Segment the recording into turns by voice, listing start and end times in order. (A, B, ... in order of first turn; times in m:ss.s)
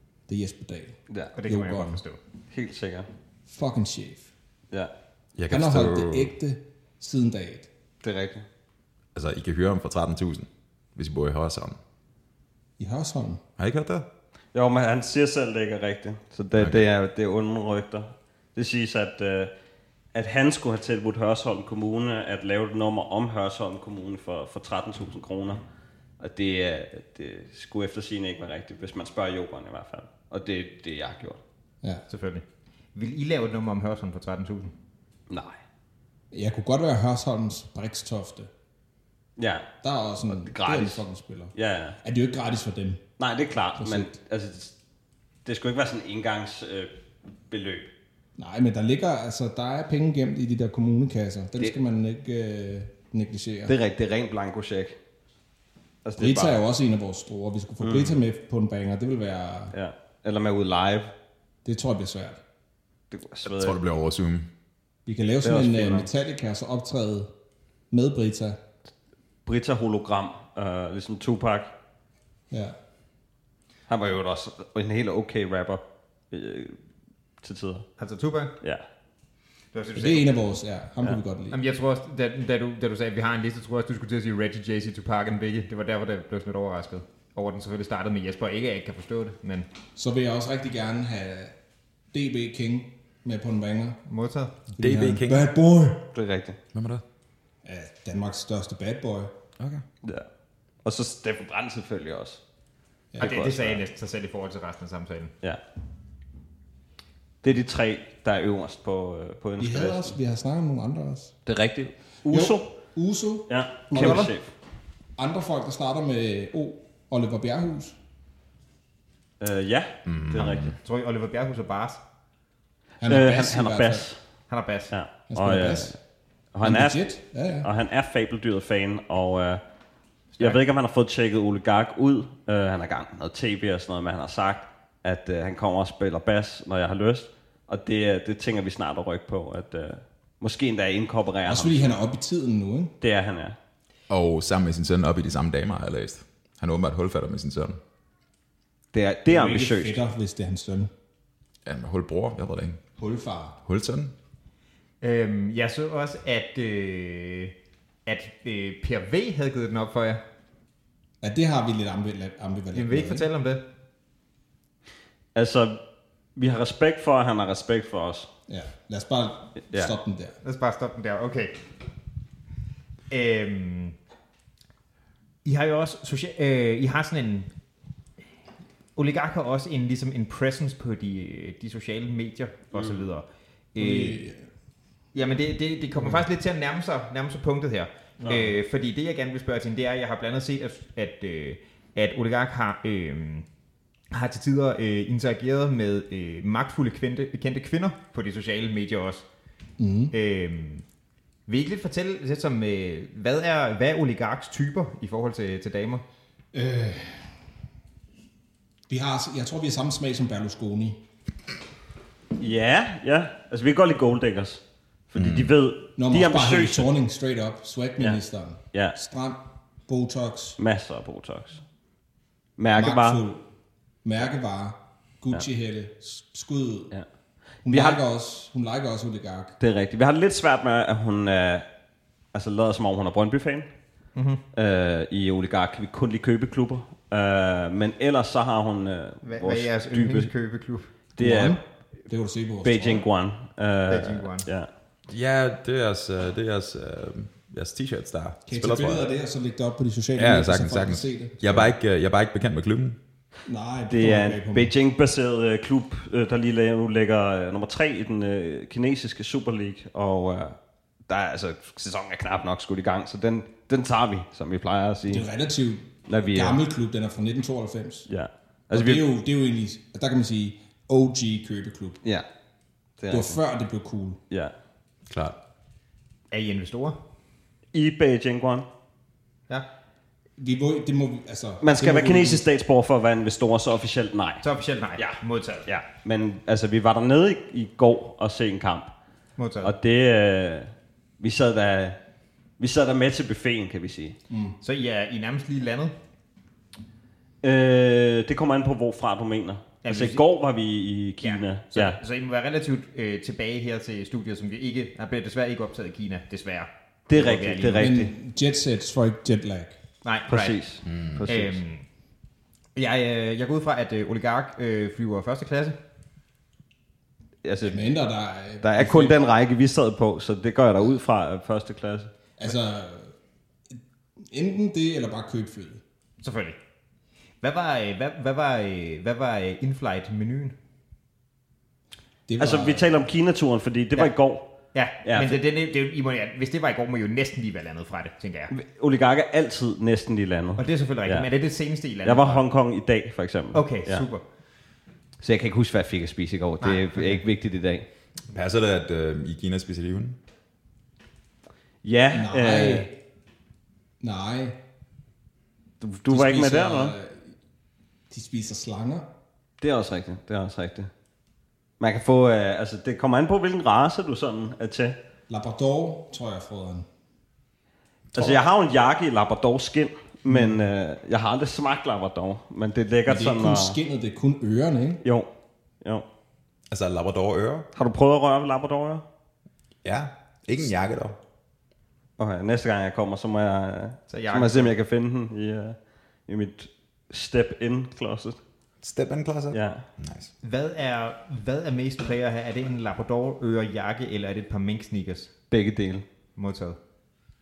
0:00.3-0:02.0 A
0:01.3-0:02.2 B
0:02.5-0:03.1 C
0:03.5-0:04.3 A
0:05.4-0:06.3 D
0:05.5-0:07.7 A
0:08.0-0:08.4 C
0:09.1-0:11.8 D
0:12.8-0:13.4 A
0:13.6-0:14.0 D
0:14.5-0:19.5 C
0:16.6-0:16.8 D
0:20.1-0:25.6 C
0:26.2-0:31.4 C
0:32.1-0:34.7 B
0:35.3-0:35.6 C
0:36.3-0:38.5 A
0:39.4-0:39.7 C
0:39.8-0:43.0 A
0:40.3-0:41.0 C
0:41.5-0:42.0 C
0:43.2-0:44.7 C
0:43.8-0:44.1 A
0:45.4-0:46.9 C
0:47.5-0:47.9 C
0:48.4-0:53.8 A
0:53.7-0:55.0 C
0:56.0-0:56.6 C
0:56.2-0:59.7 A
0:57.8-0:58.2 C
0:59.7-1:01.1 C
1:01.6-1:02.4 A
1:03.1-1:03.8 C
1:03.4-1:04.5 D
1:05.0-1:07.3 A
1:05.4-1:06.1 C
1:07.9-1:08.6 A
1:09.4-1:11.7 C
1:12.5-1:12.8 A
1:13.9-1:16.8 C
1:17.4-1:17.9 C
1:18.0-1:18.6 B
1:19.7-1:20.4 B
1:20.0-1:21.6 A
1:21.5-1:29.7 B
1:29.9-1:31.6 A
1:32.1-1:34.0 A
1:34.1-1:34.6 B
1:34.7-1:36.1 A
1:34.8-1:35.5 D
1:36.1-1:36.6 C
1:36.7-1:37.0 D
1:37.6-1:39.3 A
1:39.6-1:39.8 D
1:40.8-1:42.4 C
1:43.1-1:43.4 A
1:43.2-1:43.8 C
1:43.2-1:45.3 B
1:47.4-1:50.1 C
1:49.6-1:51.4 A
1:51.4-1:52.7 C
1:52.2-1:54.3 A
1:53.5-1:54.5 C
1:53.9-1:54.3 B
1:55.2-1:58.0 A
1:59.4-2:00.7 C
2:00.0-2:00.8 D
2:00.8-2:02.0 B
2:03.0-2:04.1 A
2:03.0-2:04.2 C
2:04.5-2:04.9 B
2:04.9-2:06.0 C
2:05.3-2:05.9 A
2:06.5-2:07.0 C
2:06.6-2:07.7 A
2:07.6-2:09.6 C
2:10.4-2:22.0 C
2:21.4-2:22.9 A
2:23.0-2:23.6 C
2:24.1-2:27.8 D
2:28.9-2:30.0 C
2:29.3-2:30.9 A
2:31.6-2:32.8 D
2:33.0-2:33.6 A
2:33.6-2:34.1 D
2:35.0-2:37.5 B
2:38.0-2:40.2 B
2:41.2-2:43.2 A
2:42.7-2:43.6 B
2:45.3-2:45.8 C
2:46.4-2:48.3 C
2:48.5-2:50.4 A
2:50.4-2:51.6 B
2:53.1-2:54.0 B
2:55.4-2:57.5 B
2:59.0-3:04.2 B
3:03.8-3:04.4 A
3:05.1-3:13.4 B
3:14.1-3:19.2 B
3:19.8-3:20.1 A
3:20.1-3:20.8 B
3:21.5-3:26.0 B
3:26.5-3:27.4 A
3:28.9-3:31.0 A
3:32.4-3:36.9 C
3:35.2-3:35.5 D
3:36.0-3:40.6 A
3:40.6-3:41.6 C
3:42.6-3:43.2 C
3:42.7-3:43.4 A
3:44.0-3:46.9 A
3:47.6-3:49.6 A
3:47.7-3:48.0 C
3:49.6-3:51.6 C
3:52.3-3:53.7 C
3:54.1-3:54.4 B
3:54.5-4:00.3 C
3:59.2-4:00.9 B
4:01.2-4:01.6 C
4:01.2-4:03.0 A
4:02.6-4:04.7 C
4:03.9-4:04.5 B
4:05.1-4:09.1 D
4:08.5-4:11.7 A
4:10.2-4:13.0 D
4:13.4-4:14.7 A
4:13.9-4:20.6 C
4:21.1-4:25.3 C
4:25.1-4:28.1 A
4:26.1-4:26.6 C
4:28.1-4:29.0 C
4:28.7-4:32.0 A
4:33.0-4:33.4 C
4:33.1-4:34.2 A
4:35.1-4:35.4 D
4:36.3-4:37.0 B
4:37.7-4:38.7 C
4:40.4-4:42.4 A
4:41.6-4:44.4 C
4:44.4-4:45.7 B
4:45.0-4:48.9 C
4:49.4-4:49.7 B
4:49.6-4:52.0 C
4:52.6-4:54.2 C
4:54.3-4:54.6 A
4:54.6-4:55.9 B
4:57.4-5:02.0 C
4:59.8-5:00.2 B
5:01.2-5:07.9 B
5:07.1-5:08.1 C
5:07.7-5:09.8 A
5:10.0-5:10.6 B
5:10.3-5:11.6 C
5:10.8-5:11.3 D
5:11.3-5:11.8 B
5:12.8-5:15.8 B
5:17.4-5:17.9 C
5:17.6-5:19.2 A
5:18.6-5:22.1 C
5:22.4-5:23.1 A
5:23.7-5:25.8 A
5:26.2-5:26.6 B
5:27.4-5:30.5 B
5:32.3-5:32.9 A
5:32.4-5:34.5 C
5:34.7-5:38.5 B
5:35.0-5:35.4 C
5:38.5-5:41.3 C
5:40.6-5:42.4 B
5:42.0-5:44.0 C
5:43.5-5:44.2 B
5:45.2-5:47.8 C
5:46.6-5:47.2 B
5:48.3-5:50.2 D
5:51.8-5:52.9 C
5:52.1-5:53.0 A
5:54.0-5:54.6 A
5:55.8-5:56.9 C
5:56.1-5:57.3 A
5:58.1-5:59.1 A
5:59.6-6:00.9 C
6:01.8-6:05.0 C
6:05.3-6:06.8 A
6:08.1-6:13.8 C
6:10.3-6:10.6 A
6:13.0-6:15.0 A
6:15.0-6:15.3 C
6:16.7-6:17.7 D
6:17.7-6:19.0 C
6:19.8-6:21.2 D
6:22.2-6:28.4 C
6:24.1-6:24.7 B
6:28.8-6:30.3 D
6:29.5-6:29.8 C
6:30.4-6:35.3 B
6:35.5-6:36.0 C
6:36.4-6:36.8 B